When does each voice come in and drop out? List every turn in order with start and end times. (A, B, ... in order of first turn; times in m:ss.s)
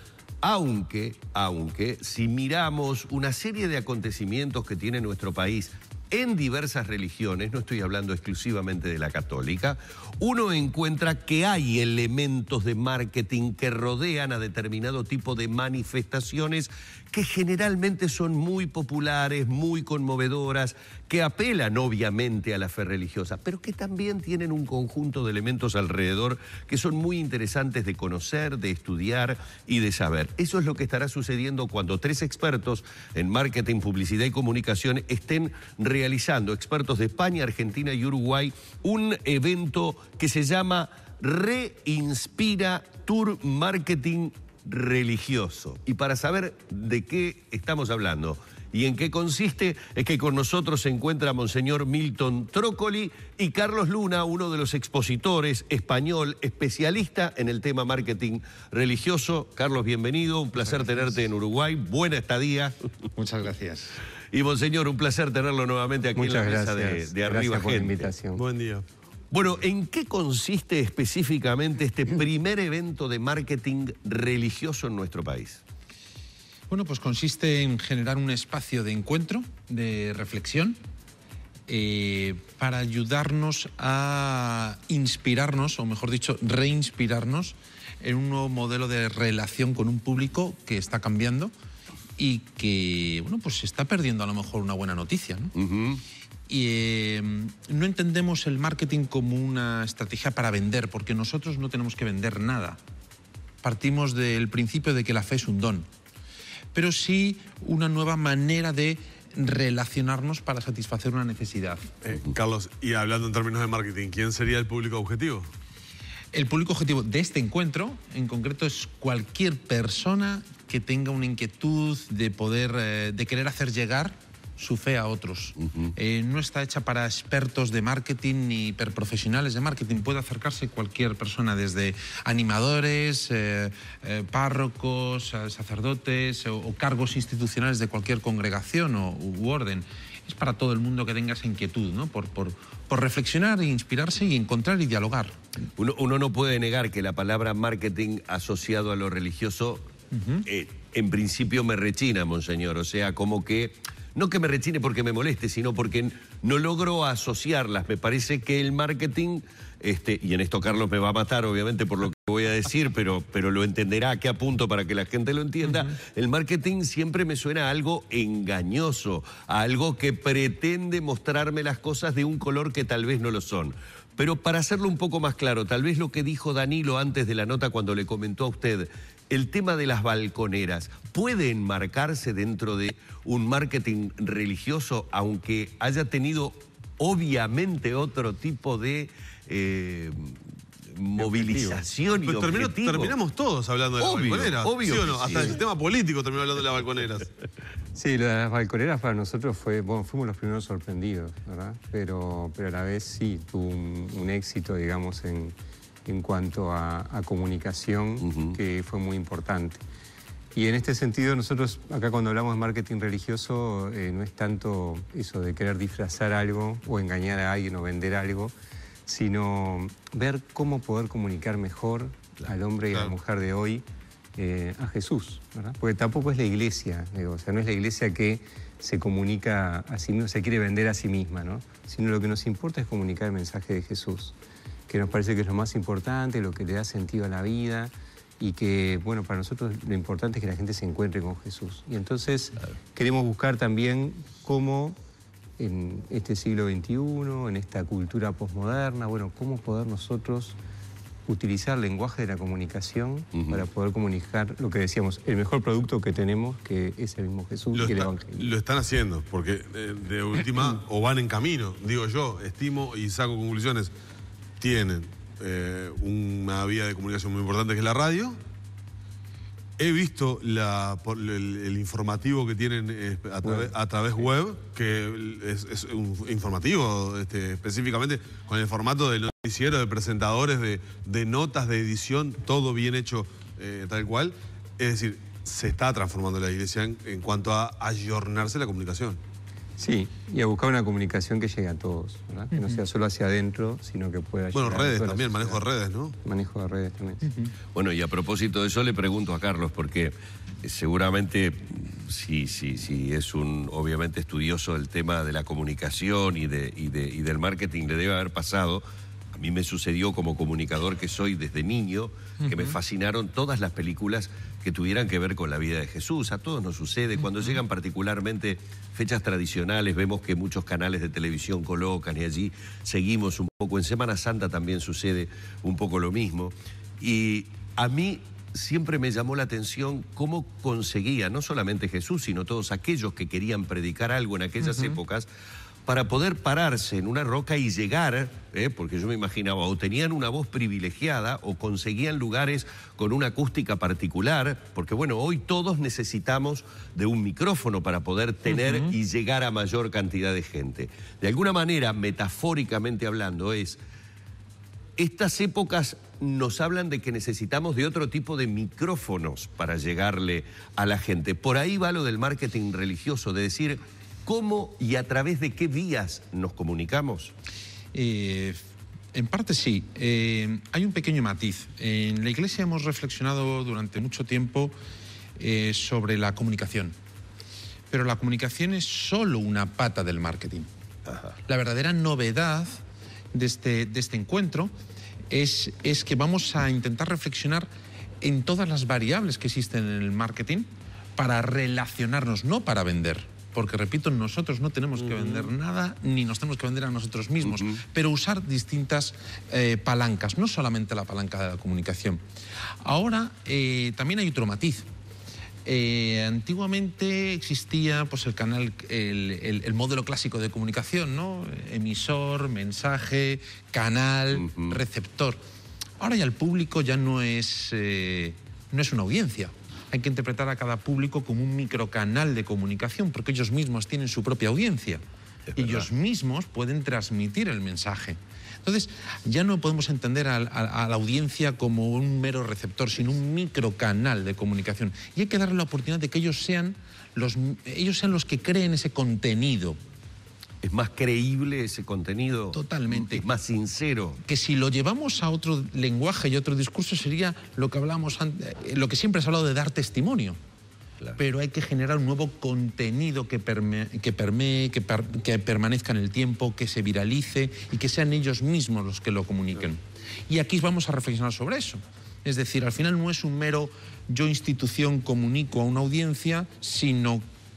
0:00.4-1:02.7 A
1:03.2-1:04.0 B
1:04.3-1:08.1 A
1:06.1-1:08.4 C
1:08.3-1:08.8 D
1:09.3-1:15.6 A
1:16.7-1:20.8 B
1:21.7-1:31.5 B
1:32.2-1:35.5 B
1:35.5-1:36.0 A
1:36.5-1:42.8 B
1:43.6-1:45.9 B
1:46.7-1:51.9 B
1:52.0-1:55.5 D
1:56.3-2:25.3 B
2:05.7-2:05.9 A
2:25.8-2:29.9 A
2:30.1-2:30.4 B
2:30.4-3:10.4 A
3:10.9-3:13.2 A
3:12.2-3:17.3 D
3:14.0-3:15.6 A
3:17.9-3:25.5 C
3:26.0-3:29.8 C
3:28.2-3:28.6 A
3:30.5-3:38.5 C
3:39.0-3:43.8 C
3:44.4-3:54.4 C
3:54.9-4:05.0 C
4:05.6-4:10.6 C
4:11.3-4:18.5 C
4:13.4-4:13.6 A
4:17.7-4:23.9 D
4:24.6-4:28.4 D
4:29.8-4:49.2 D
4:33.4-4:33.7 C
4:49.8-4:55.6 C
4:52.5-4:52.8 B
4:54.5-4:56.2 D
4:56.2-4:57.2 C
4:57.2-4:57.5 B
4:57.7-5:08.8 A
5:09.3-5:35.3 A
5:12.4-5:12.7 B
5:34.7-5:34.9 B
5:35.8-5:53.8 A
5:48.5-5:48.9 B
5:55.0-6:07.3 A
6:07.9-6:08.6 B
6:09.1-6:14.7 B
6:15.4-6:16.9 B
6:17.9-6:20.7 B
6:21.4-6:22.8 B
6:23.3-6:24.7 B
6:25.3-6:27.7 B
6:28.2-6:42.2 B
6:37.5-6:37.8 A
6:42.8-6:44.8 B
6:45.6-6:55.4 B
6:54.4-6:54.8 A
6:56.0-7:05.0 B
7:05.5-7:05.9 A
7:05.6-7:19.8 B
7:20.6-7:24.2 A
7:22.5-7:23.2 B
7:24.2-7:30.4 B
7:31.2-7:47.2 B